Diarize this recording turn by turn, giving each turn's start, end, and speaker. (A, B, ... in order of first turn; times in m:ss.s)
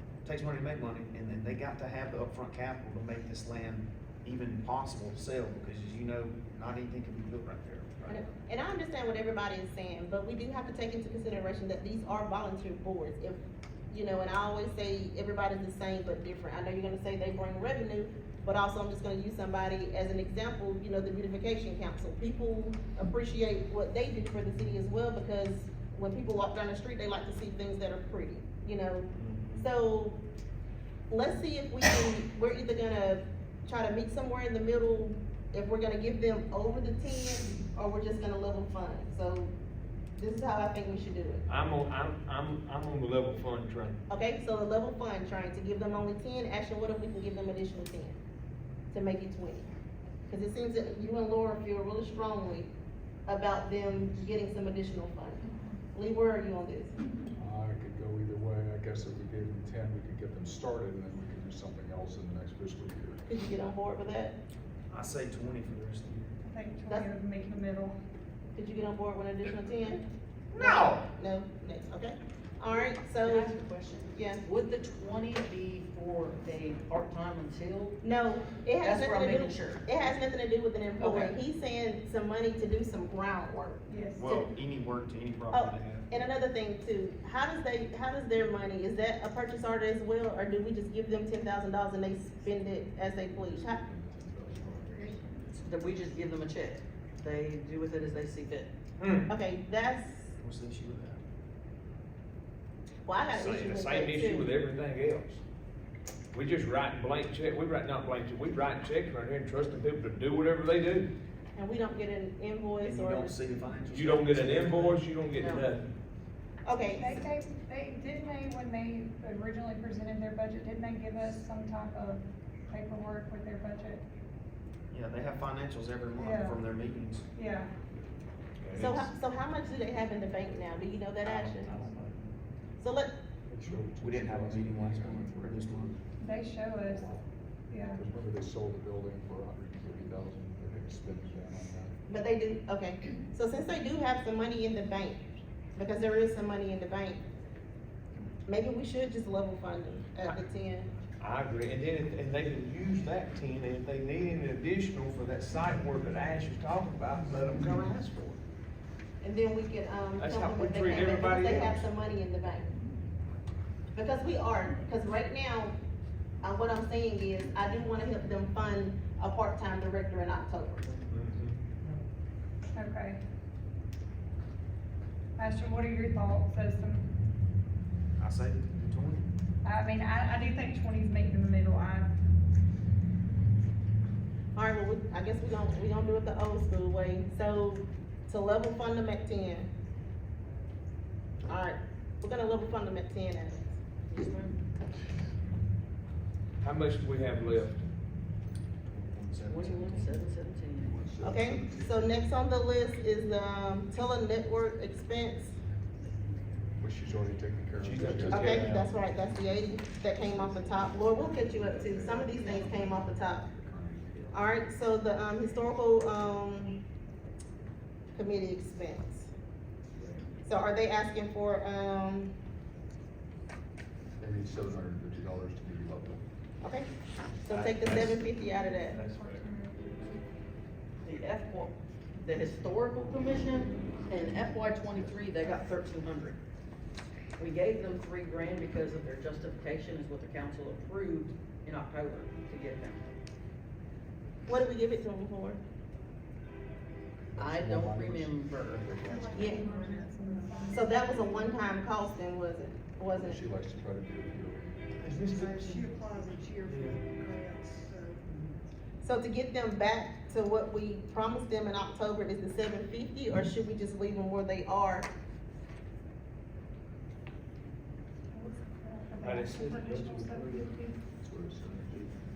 0:00.2-0:08.2 A
0:08.1-0:30.2 B
0:29.2-0:29.6 A
0:31.1-0:39.5 B
0:40.2-0:41.4 B
0:41.5-0:44.0 C
0:44.1-0:48.2 B
0:48.9-0:49.7 B
0:50.3-0:52.7 B
0:53.3-0:56.9 B
0:57.4-1:03.2 D
1:03.3-1:04.4 B
1:04.9-1:06.4 A
1:06.4-1:08.0 E
1:08.6-1:10.0 B
1:10.5-1:11.0 A
1:10.6-1:13.5 B
1:13.2-1:18.0 F
1:14.1-1:14.4 B
1:18.0-1:24.5 B
1:18.8-1:19.9 F
1:21.0-1:21.3 F
1:23.9-1:24.2 E
1:24.2-1:26.1 A
1:25.5-1:33.8 B
1:33.0-1:35.2 D
1:35.5-1:38.7 F
1:39.0-1:39.3 C
1:39.3-1:40.3 B
1:40.4-1:41.2 A
1:43.0-1:44.5 B
1:43.3-1:45.4 C
1:46.3-1:51.1 C
1:51.6-1:53.3 B
1:52.8-1:55.0 A
1:53.9-1:55.8 C
1:55.3-1:55.7 F
1:56.6-1:57.3 B
1:56.9-2:04.0 E
2:04.9-2:07.3 A
2:06.2-2:06.6 E
2:07.3-2:07.7 E
2:08.6-2:09.1 C
2:08.8-2:11.9 B
2:12.8-2:13.1 B
2:13.5-2:16.0 D
2:14.0-2:15.9 A
2:16.2-2:17.1 E
2:16.9-2:17.2 D
2:17.7-2:18.0 E
2:17.8-2:22.0 D
2:22.1-2:25.2 B
2:25.8-2:27.2 B
2:28.4-2:30.9 B
2:31.2-2:38.4 C
2:39.2-2:42.7 B
2:40.2-2:41.9 C
2:43.9-2:45.8 B
2:46.4-2:50.9 B
2:51.1-2:51.6 C
2:52.8-2:53.2 E
2:55.4-2:57.1 E
2:58.2-2:59.3 A
2:59.6-3:02.1 E
3:04.6-3:09.7 B
3:11.5-3:13.7 B
3:14.1-3:14.6 F
3:16.6-3:17.8 C
3:18.9-3:20.2 A
3:19.4-3:21.1 F
3:20.8-3:22.3 D
3:21.2-3:25.6 B
3:26.8-3:28.8 D
3:27.8-3:28.9 C
3:28.3-3:33.5 B
3:30.4-3:33.0 D
3:33.6-3:34.1 D
3:34.3-3:36.8 B
3:38.1-3:39.3 B
3:40.4-3:42.4 B
3:44.2-3:46.2 D
3:46.6-3:46.9 B
3:47.4-3:49.0 B
3:47.5-3:49.4 C
3:48.4-3:50.2 E
3:51.0-3:56.4 F
3:57.4-4:03.1 F
4:04.5-4:05.6 B
4:07.3-4:09.6 D
4:07.4-4:08.9 F
4:09.1-4:11.4 G
4:09.1-4:11.1 E
4:09.3-4:09.8 B
4:10.7-4:13.4 B
4:13.1-4:15.0 D
4:15.0-4:15.9 C
4:15.2-4:18.2 G
4:16.6-4:17.1 C
4:19.0-4:25.1 B
4:28.3-4:31.0 E
4:29.2-4:30.8 C
4:31.2-4:32.2 D